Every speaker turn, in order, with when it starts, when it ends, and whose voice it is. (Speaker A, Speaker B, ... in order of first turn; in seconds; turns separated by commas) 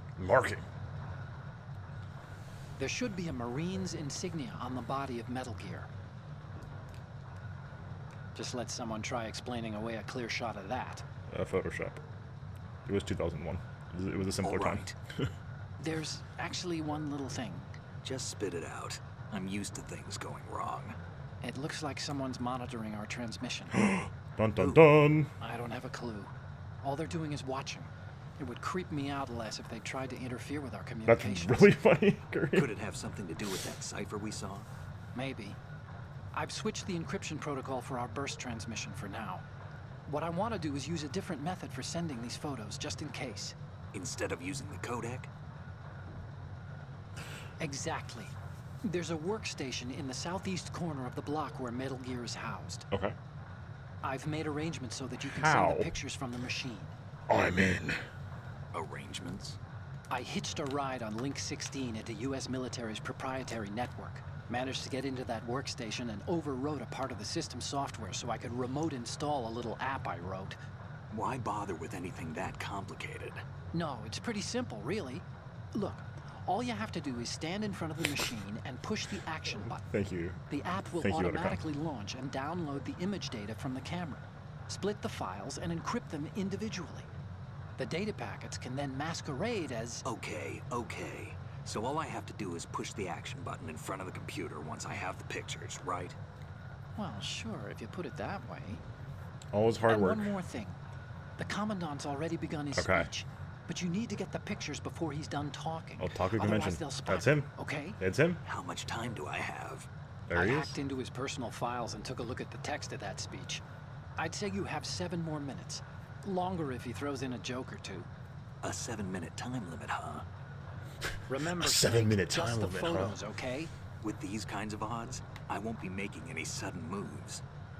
Speaker A: 0.2-0.6, Speaker B: 2.8-5.9, Speaker B: 8.3-11.1, Speaker A: 11.3-12.0, Speaker A: 12.8-14.9, Speaker C: 14.4-14.9, Speaker B: 15.8-17.8, Speaker C: 18.0-21.0, Speaker B: 21.4-23.9, Speaker A: 23.7-25.3, Speaker B: 25.4-31.8, Speaker A: 31.1-32.7, Speaker C: 32.5-34.7, Speaker B: 35.1-35.6, Speaker B: 36.3-39.4, Speaker B: 40.1-43.6, Speaker C: 43.9-45.3, Speaker B: 47.6-52.9, Speaker A: 52.9-53.2, Speaker B: 54.0-56.9, Speaker A: 55.3-55.9, Speaker A: 57.3-58.0, Speaker C: 58.7-59.6, Speaker B: 60.1-70.6, Speaker C: 71.1-73.4, Speaker B: 73.7-79.9, Speaker A: 79.9-80.4, Speaker B: 80.5-87.1, Speaker A: 81.0-81.6, Speaker B: 87.8-90.0, Speaker C: 90.0-96.2, Speaker B: 97.0-98.8, Speaker A: 99.5-100.3, Speaker B: 99.9-100.8, Speaker B: 101.4-108.0, Speaker A: 102.8-103.1, Speaker A: 106.0-108.4, Speaker C: 108.4-109.9, Speaker A: 110.3-110.8, Speaker B: 110.3-113.6, Speaker B: 114.2-118.1, Speaker C: 118.6-120.3, Speaker B: 121.3-123.7, Speaker A: 121.6-123.2, Speaker C: 124.0-127.4